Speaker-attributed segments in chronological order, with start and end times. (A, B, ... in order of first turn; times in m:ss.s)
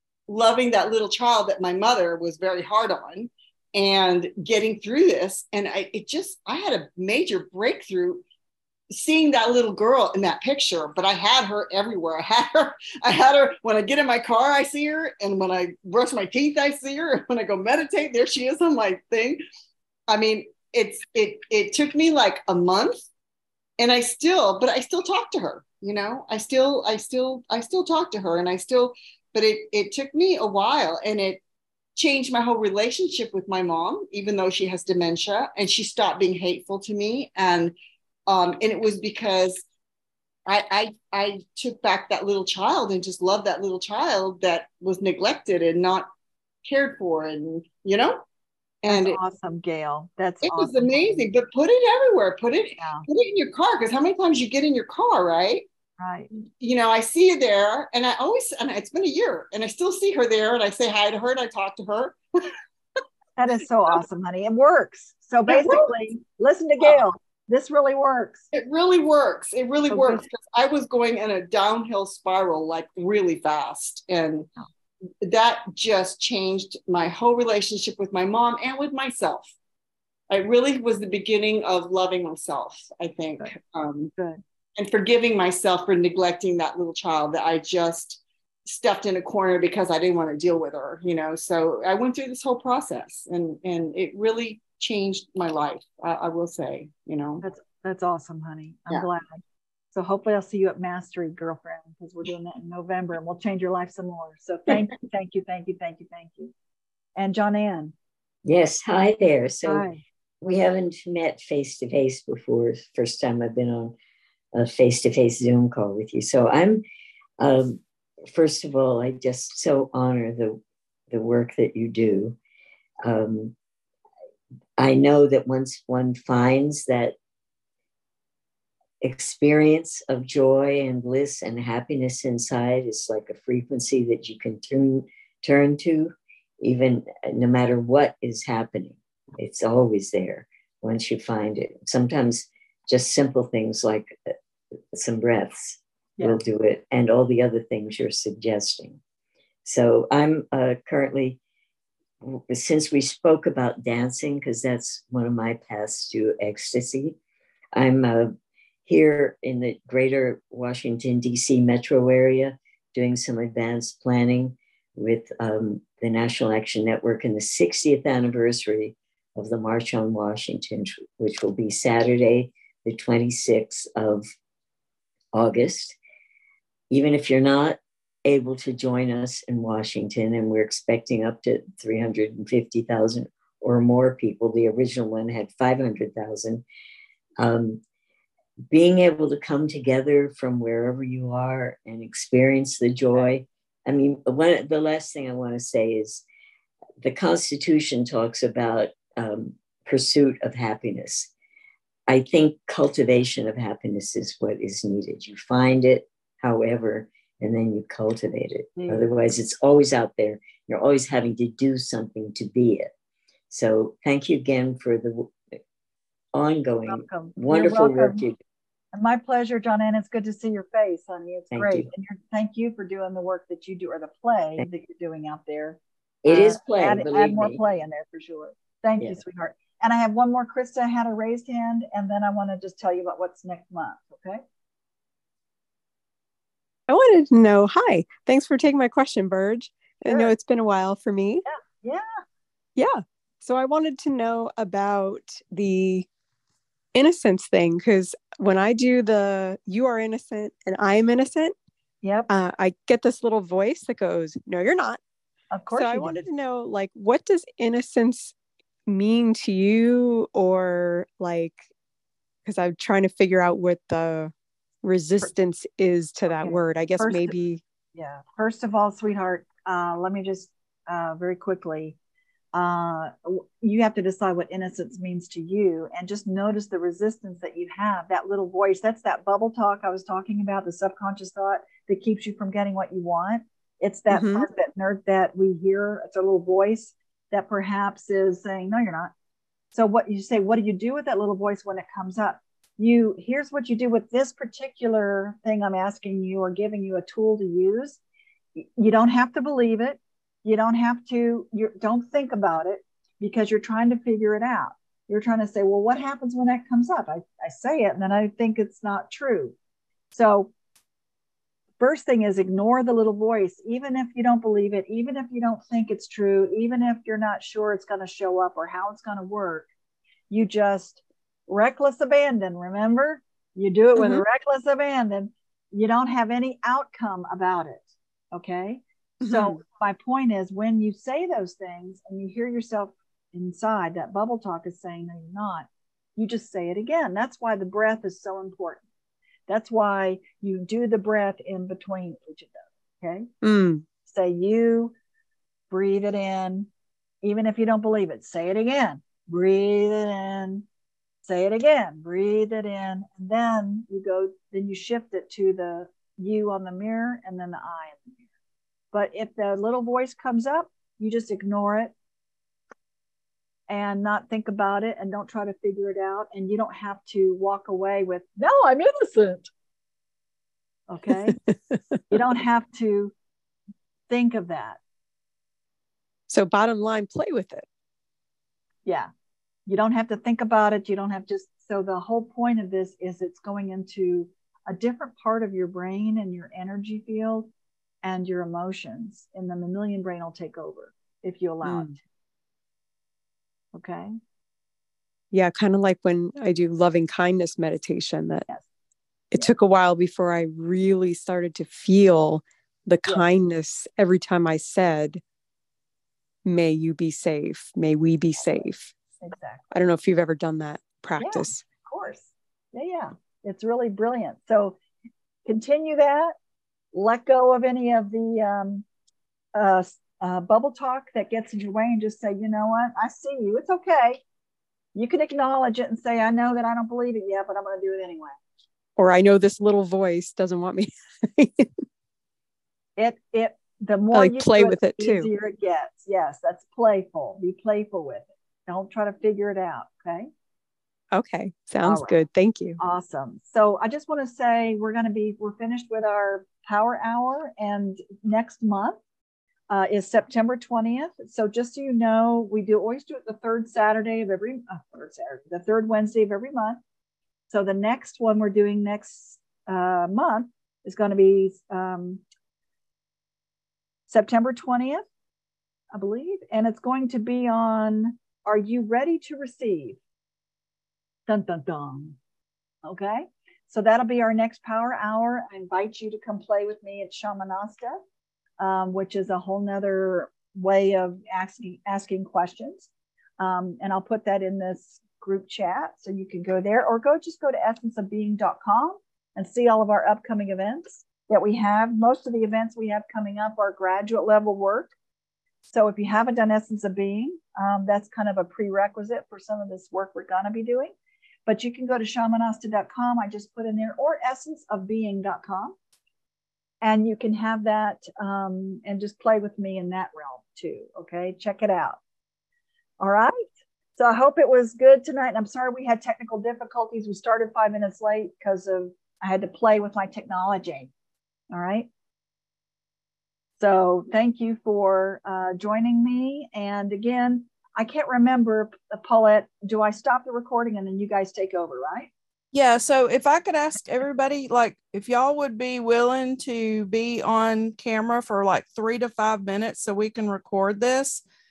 0:00.3-0:08.2 A
0:08.9-0:19.4 A
0:20.1-0:23.1 A
0:23.8-0:31.4 A
0:32.0-0:37.8 A
0:38.3-0:39.6 A
0:40.5-0:46.1 A
0:46.6-0:48.2 A
0:48.9-0:49.2 A
0:48.9-0:51.3 B
0:50.4-0:55.7 A
0:52.8-0:53.1 B
0:56.0-0:56.3 B
0:56.6-1:02.2 A
1:03.4-1:08.5 B
1:05.5-1:05.9 A
1:08.5-1:14.5 A
1:09.9-1:10.3 B
1:15.2-1:19.5 A
1:20.3-1:24.1 A
1:24.2-1:24.4 B
1:24.8-1:37.4 A
1:37.4-1:39.4 B
1:39.9-1:46.5 B
1:47.2-1:47.9 B
1:48.4-1:49.9 C
1:49.6-1:50.0 B
1:50.4-1:54.0 C
1:54.5-1:56.8 C
1:57.4-2:02.4 C
2:03.0-2:03.6 C
2:04.8-2:07.2 C
2:09.0-2:24.2 C
2:24.9-2:29.0 C
2:29.6-2:31.4 C
2:32.2-2:37.2 C
2:37.7-2:38.3 C
2:38.9-2:54.3 C
2:55.3-2:56.0 C
2:56.9-3:06.6 C
3:07.4-3:07.8 C
3:08.7-3:16.2 C
3:17.0-3:21.3 C
3:22.1-3:32.9 C
3:28.8-3:29.1 B
3:33.5-3:35.3 C
3:36.3-3:38.4 C
3:36.9-3:38.3 B
3:38.9-3:54.4 B
3:41.5-3:41.9 C
3:46.2-3:47.6 C
3:56.9-4:01.5 D
4:00.1-4:00.3 B
4:01.4-4:02.0 B
4:02.8-4:06.1 D
4:06.9-4:11.6 D
4:12.0-4:12.3 B
4:12.3-4:15.0 D
4:15.5-4:16.2 B
4:15.7-4:18.3 D
4:18.9-4:21.7 D
4:22.4-4:24.3 D
4:24.8-4:27.6 D
4:26.3-4:27.4 B
4:28.0-4:32.0 B
4:32.5-4:49.1 B
4:44.1-4:44.5 D
4:49.7-4:58.0 B
4:58.6-5:09.6 B
5:10.1-5:10.5 B
5:11.8-5:19.7 B
5:20.3-5:38.8 B
5:24.0-5:24.2 D
5:29.2-5:29.6 D
5:39.5-5:43.3 B
5:43.4-5:43.8 D
5:44.0-5:44.9 B
5:45.7-5:46.7 B
5:47.2-5:50.6 B
5:51.2-5:58.1 B
5:58.9-6:01.9 B
6:03.7-6:09.5 B
6:10.9-6:11.4 B
6:12.1-6:13.1 B
6:14.1-6:14.8 B
6:16.3-6:17.7 D
6:19.7-6:27.5 B
6:28.0-6:32.0 B
6:31.6-6:31.9 D
6:33.7-6:34.2 B
6:35.3-6:38.4 D
6:39.3-6:45.2 D
6:46.4-6:49.0 D
6:48.4-6:48.7 B
6:49.2-6:49.6 B
6:49.7-6:51.6 D
6:51.2-6:54.8 B
6:55.5-6:56.4 B
6:56.9-6:58.8 B
6:59.6-7:04.2 B
7:05.0-7:08.4 B
7:09.0-7:11.8 D
7:13.0-7:20.3 B
7:14.1-7:15.3 D
7:21.1-7:22.8 D
7:21.8-7:22.2 B
7:22.8-7:29.0 B
7:29.7-7:36.8 B
7:37.5-7:42.2 B
7:44.1-7:45.0 B
7:45.9-7:50.0 B
7:51.3-7:52.2 B
7:52.8-7:58.0 B
7:58.6-8:02.9 B
8:03.4-8:14.9 B
8:15.7-8:20.9 B
8:21.5-8:25.8 B
8:26.8-8:32.0 B
8:33.0-8:33.4 B
8:34.0-8:40.9 B
8:41.5-8:41.9 B
8:43.6-8:52.1 B
8:52.5-9:01.2 E